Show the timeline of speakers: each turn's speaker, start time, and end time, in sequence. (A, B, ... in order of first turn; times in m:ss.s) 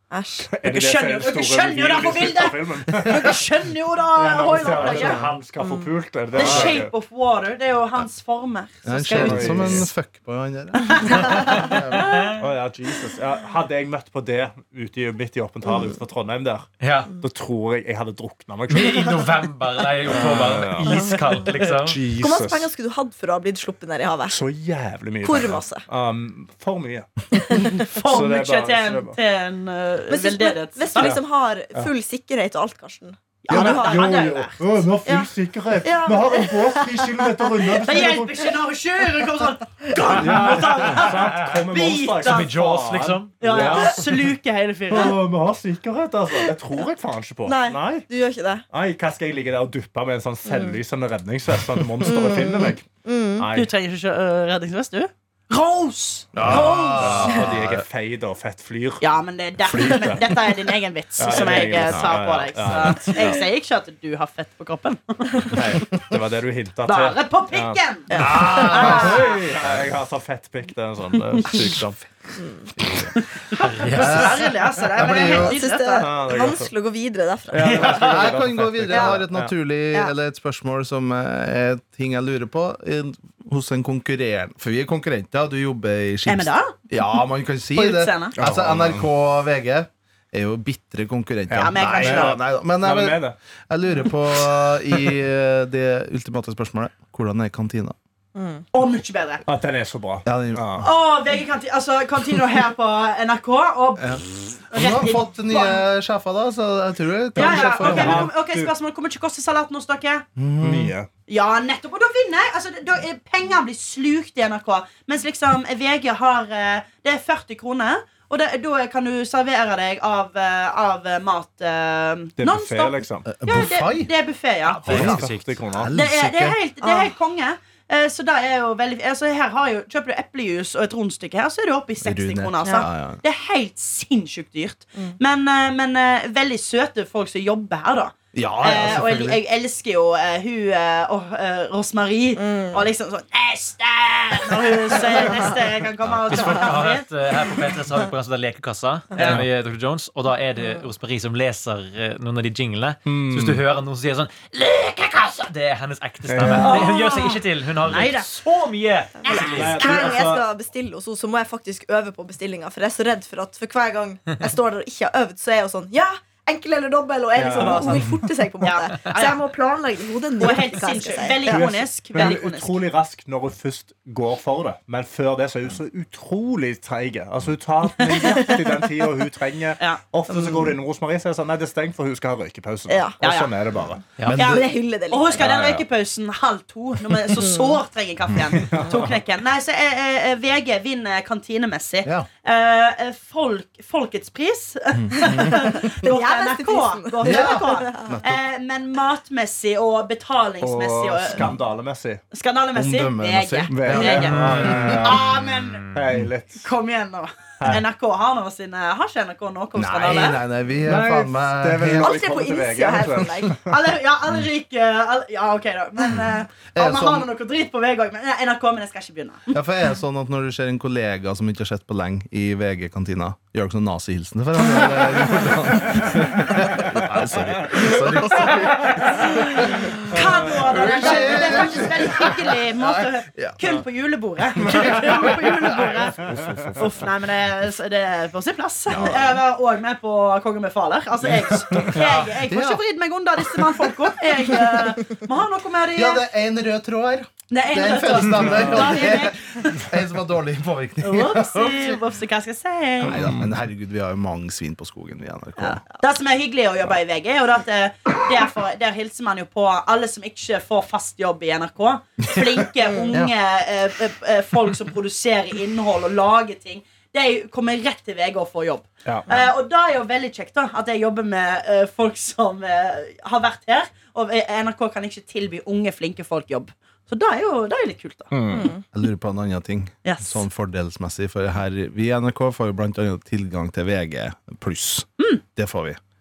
0:00.1-0:00.5 A
0:00.5-0:03.5 B
0:00.6-0:05.3 C
0:04.1-0:06.9 B
0:05.6-0:05.9 A
0:06.3-0:09.9 C
0:06.4-0:06.8 D
0:08.8-0:12.2 D
0:09.1-0:09.9 B
0:10.9-0:11.4 C
0:11.7-0:12.4 E
0:12.3-0:19.3 B
0:16.8-0:17.1 E
0:18.7-0:22.0 E
0:20.1-0:22.7 B
0:22.1-0:24.4 A
0:24.3-0:27.1 B
0:25.2-0:25.8 A
0:27.6-0:31.2 C
0:28.0-0:29.2 B
0:30.1-0:34.1 A
0:31.0-0:31.2 B
0:33.4-0:34.8 C
0:33.5-0:38.5 B
0:35.8-0:37.2 A
0:37.8-0:42.6 C
0:40.1-0:44.3 B
0:42.2-0:43.9 E
0:43.4-0:45.2 C
0:44.9-0:48.1 B
0:47.4-0:48.6 A
0:48.7-0:53.7 B
0:50.4-0:50.8 A
0:52.0-0:53.5 A
0:53.5-0:57.3 C
0:56.3-0:57.8 D
0:56.4-0:59.1 B
0:59.0-1:05.9 C
0:59.6-1:00.5 B
1:01.2-1:03.4 B
1:01.8-1:02.1 D
1:05.5-1:12.0 B
1:06.8-1:09.5 C
1:08.1-1:09.1 A
1:08.2-1:08.6 E
1:08.3-1:09.1 D
1:12.4-1:12.7 A
1:13.4-1:16.1 C
1:13.6-1:14.4 E
1:13.9-1:15.6 D
1:15.1-1:18.2 A
1:16.0-1:16.7 B
1:17.5-1:19.5 B
1:17.7-1:38.0 D
1:18.9-1:19.2 A
1:26.2-1:26.8 C
1:27.7-1:28.4 C
1:28.4-1:29.1 B
1:31.5-1:33.4 B
1:31.6-1:32.4 C
1:38.4-1:38.6 A
1:38.7-1:39.4 C
1:39.4-1:40.9 B
1:40.2-1:40.8 D
1:40.8-1:45.8 C
1:44.0-1:48.3 D
1:47.3-1:48.7 B
1:47.4-1:50.2 C
1:50.4-1:50.9 D
1:50.6-1:51.1 B
1:51.3-2:05.0 C
2:02.4-2:03.4 B
2:03.3-2:04.1 D
2:04.6-2:05.6 E
2:04.8-2:06.0 B
2:04.8-2:06.6 D
2:05.9-2:27.1 C
2:06.8-2:07.1 A
2:12.0-2:13.2 D
2:18.3-2:19.4 D
2:22.4-2:22.8 A
2:26.3-2:39.8 E
2:29.2-2:29.4 C
2:29.2-2:29.4 B
2:33.0-2:33.6 B
2:36.3-2:36.9 B
2:36.5-2:38.3 C
2:39.2-2:40.1 C
2:39.3-2:51.6 A
2:39.4-2:40.4 B
2:47.3-2:48.1 B
2:47.5-2:49.4 C
2:50.4-2:52.8 C
2:51.4-3:04.1 B
3:00.3-3:00.7 A
3:02.9-3:03.2 A
3:03.2-3:03.5 C
3:04.2-3:04.7 D
3:04.3-3:05.4 A
3:04.3-3:21.5 C
3:05.3-3:05.8 B
3:07.3-3:07.8 A
3:08.5-3:09.2 B
3:14.9-3:15.9 D
3:15.3-3:18.2 A
3:17.2-3:18.4 D
3:20.6-3:22.2 B
3:22.3-3:25.8 C
3:22.7-3:25.0 D
3:23.7-3:25.3 B
3:24.4-3:25.0 E
3:25.6-3:25.9 E
3:25.9-3:26.6 B
3:26.6-3:30.4 C
3:29.8-3:32.2 D
3:30.8-3:33.7 B
3:31.9-3:33.6 A
3:33.6-3:39.5 C
3:36.7-3:37.3 D
3:39.5-3:53.6 D
3:45.9-3:49.3 B
3:49.8-3:51.6 B
3:50.0-3:56.2 C
3:54.6-3:57.0 B
3:56.7-4:06.2 C
3:58.9-3:59.4 D
4:01.7-4:02.2 B
4:02.4-4:02.8 D
4:03.4-4:04.1 D
4:05.9-4:12.0 D
4:07.5-4:09.8 C
4:11.0-4:13.3 C
4:13.0-4:15.8 D
4:13.1-4:13.5 B
4:15.6-4:38.3 C
4:29.0-4:29.4 B
4:38.3-4:38.7 B
4:38.5-4:38.8 A
4:38.9-4:46.0 D
4:40.0-4:40.4 C